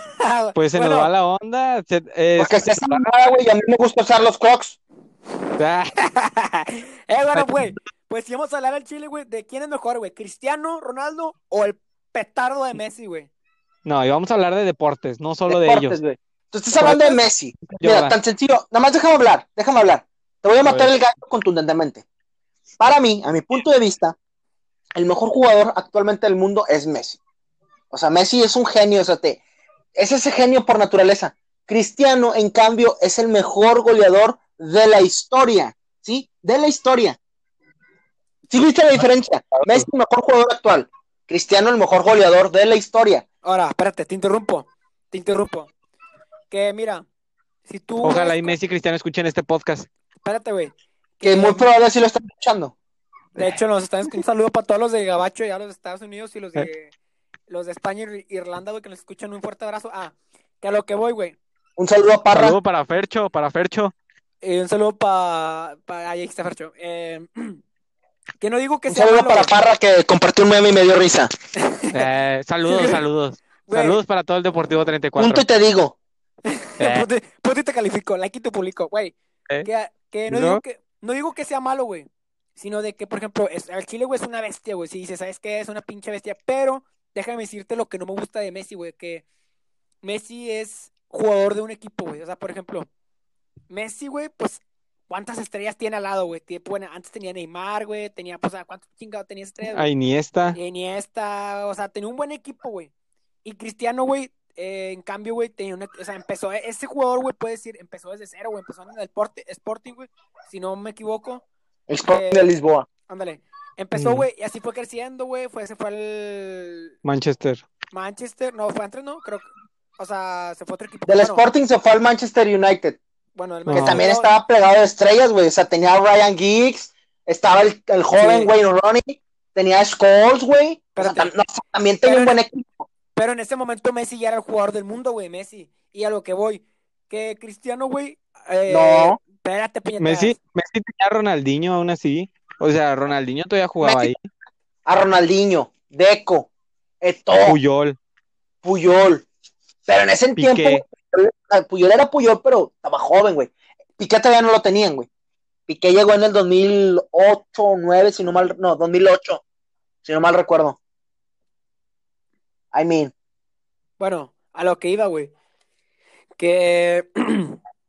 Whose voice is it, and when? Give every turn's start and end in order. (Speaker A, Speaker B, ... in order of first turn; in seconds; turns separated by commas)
Speaker A: 0.2-1.1, Speaker B: 0.6-3.1, Speaker C: 2.4-4.8, Speaker B: 5.6-5.9, Speaker A: 6.0-13.3, Speaker B: 7.3-7.7, Speaker B: 13.8-16.0, Speaker C: 15.5-22.1, Speaker B: 16.8-18.1, Speaker B: 20.6-20.9, Speaker C: 22.8-24.2, Speaker C: 25.0-27.2, Speaker C: 27.9-29.4, Speaker C: 30.0-37.2, Speaker C: 38.5-43.2, Speaker B: 39.6-39.9, Speaker A: 43.4-45.7, Speaker A: 46.5-47.1, Speaker A: 47.7-48.6, Speaker B: 48.0-49.9, Speaker A: 50.2-51.7, Speaker C: 51.2-52.7, Speaker A: 53.4-56.9, Speaker A: 57.5-61.4, Speaker C: 61.8-62.6, Speaker B: 62.3-63.9, Speaker A: 64.4-67.6, Speaker A: 68.4-69.5, Speaker C: 68.9-71.3, Speaker A: 71.6-72.0, Speaker B: 71.9-75.4, Speaker A: 72.7-73.0, Speaker A: 73.7-74.0, Speaker C: 75.2-76.0, Speaker A: 76.5-89.2, Speaker B: 76.8-77.1, Speaker B: 80.3-80.6, Speaker A: 90.0-92.9, Speaker A: 93.7-99.9, Speaker B: 99.7-100.6, Speaker A: 100.5-102.9, Speaker A: 103.4-111.4, Speaker C: 111.9-112.9, Speaker A: 112.1-112.5, Speaker A: 113.1-117.0, Speaker B: 114.0-114.2, Speaker B: 117.0-117.7, Speaker A: 117.9-121.4, Speaker C: 121.1-123.0, Speaker A: 123.4-124.3, Speaker B: 123.7-124.0, Speaker C: 123.8-132.9, Speaker A: 128.2-128.5, Speaker A: 130.9-131.3, Speaker A: 132.1-132.4, Speaker A: 133.2-140.4, Speaker C: 138.7-139.2, Speaker B: 140.0-144.3, Speaker C: 143.8-144.1, Speaker C: 144.9-146.5, Speaker C: 147.0-147.6, Speaker B: 147.4-148.0, Speaker C: 148.6-149.2, Speaker C: 149.8-155.1, Speaker B: 150.4-150.8, Speaker C: 155.7-159.4, Speaker C: 160.1-160.8, Speaker C: 162.7-163.1, Speaker A: 164.0-165.3, Speaker A: 166.4-167.6